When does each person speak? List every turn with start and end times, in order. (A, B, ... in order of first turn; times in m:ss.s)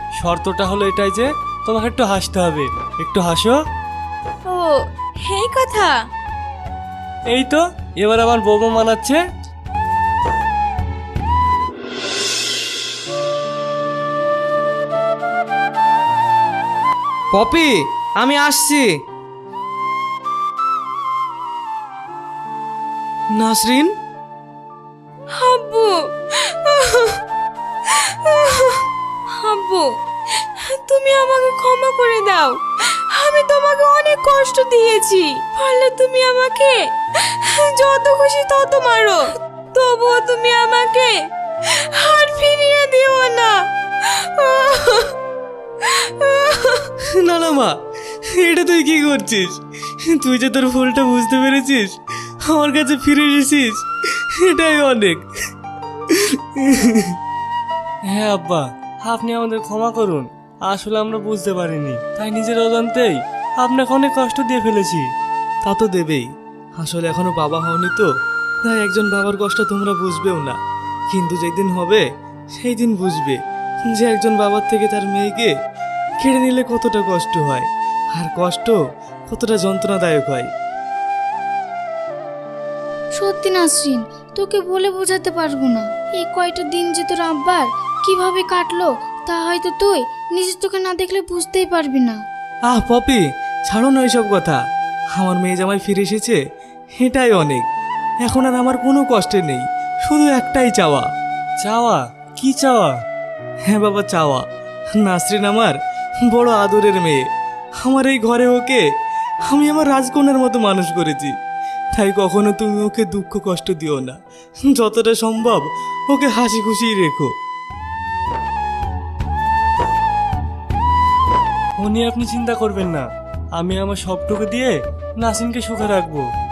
0:00.2-0:03.6 A
0:04.5-0:06.0 B
0:07.3-0:09.2 A
0:17.3-0:18.9 C
0:23.4-0:23.9 C
0:25.3-0:27.2 B
0:27.8-0:45.1 B
0:45.8-0:46.9 B
0:47.1-0:55.2 C
0:56.1-0:57.2 C
0:58.1-1:05.0 A
1:05.6-1:06.3 C
1:06.8-1:08.1 C
1:08.6-1:10.6 C
1:11.1-1:12.0 C
1:12.6-1:15.5 C
1:16.2-1:20.5 C
1:23.2-1:32.2 D
1:32.7-1:34.6 C
1:35.1-1:36.4 C
1:37.0-1:37.6 C
1:38.2-1:41.1 C
1:41.6-1:42.9 A
1:43.7-1:44.4 C
1:45.0-1:45.8 C
1:46.3-1:47.2 C
1:47.8-1:48.8 C
1:49.5-1:51.3 C
1:51.9-1:57.3 C
2:01.8-2:06.2 A